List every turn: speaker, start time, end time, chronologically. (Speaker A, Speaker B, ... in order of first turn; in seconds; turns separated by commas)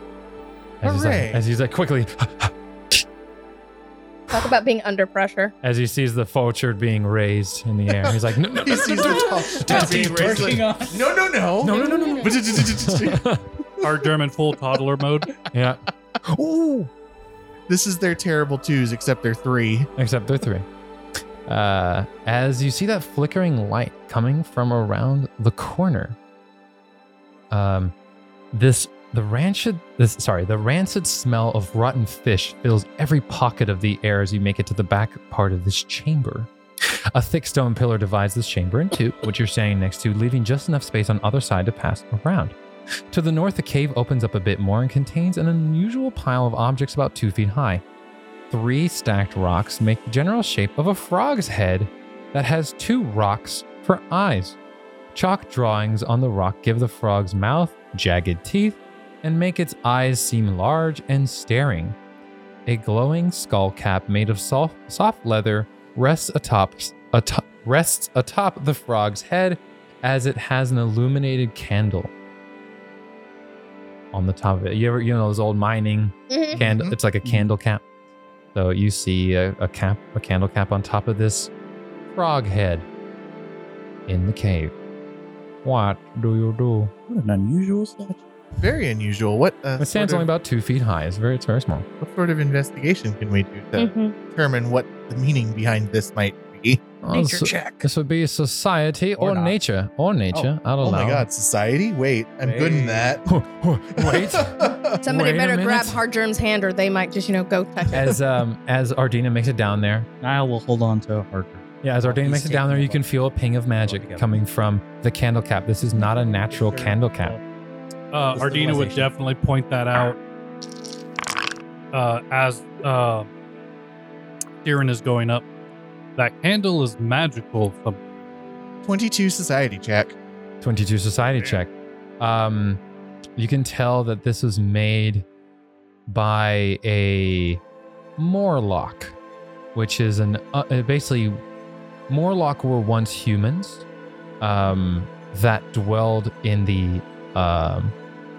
Speaker A: 0.8-3.0, Speaker B: 0.8-1.4, Speaker C: 4.3-5.5, Speaker A: 5.6-10.5, Speaker B: 8.7-13.2, Speaker D: 9.0-11.1, Speaker A: 11.6-13.4, Speaker C: 11.7-12.4, Speaker E: 13.8-15.3, Speaker A: 15.5-16.9, Speaker B: 17.7-19.9, Speaker A: 20.0-20.7, Speaker A: 21.5-26.2, Speaker A: 27.5-27.9, Speaker A: 28.5-36.5, Speaker A: 37.1-42.5, Speaker A: 43.1-47.8, Speaker A: 48.5-54.6, Speaker A: 55.1-62.0, Speaker A: 62.7-72.1, Speaker A: 74.1-77.8, Speaker C: 76.3-76.6, Speaker B: 76.5-77.0, Speaker A: 78.5-81.5, Speaker A: 82.1-82.9, Speaker A: 84.1-84.7, Speaker A: 85.6-86.9, Speaker D: 87.1-88.2, Speaker B: 88.6-90.3, Speaker A: 89.8-91.9, Speaker B: 92.0-96.8, Speaker C: 93.8-94.1, Speaker A: 97.0-101.3, Speaker D: 97.1-97.9, Speaker D: 99.2-99.5, Speaker B: 100.8-103.2, Speaker D: 102.4-103.2, Speaker A: 103.3-106.0, Speaker B: 104.0-105.0, Speaker C: 105.0-108.1, Speaker A: 107.9-110.1, Speaker D: 110.2-113.0, Speaker A: 111.8-117.4, Speaker D: 113.8-114.4, Speaker D: 116.0-117.4, Speaker E: 118.1-120.2, Speaker D: 118.3-119.1, Speaker E: 121.9-123.3, Speaker E: 124.6-125.5, Speaker E: 126.2-128.0, Speaker B: 128.8-130.2, Speaker A: 130.6-132.8, Speaker A: 133.4-135.3, Speaker A: 136.1-137.6, Speaker A: 138.2-139.2, Speaker A: 139.8-141.4, Speaker A: 142.1-143.8, Speaker A: 144.4-147.9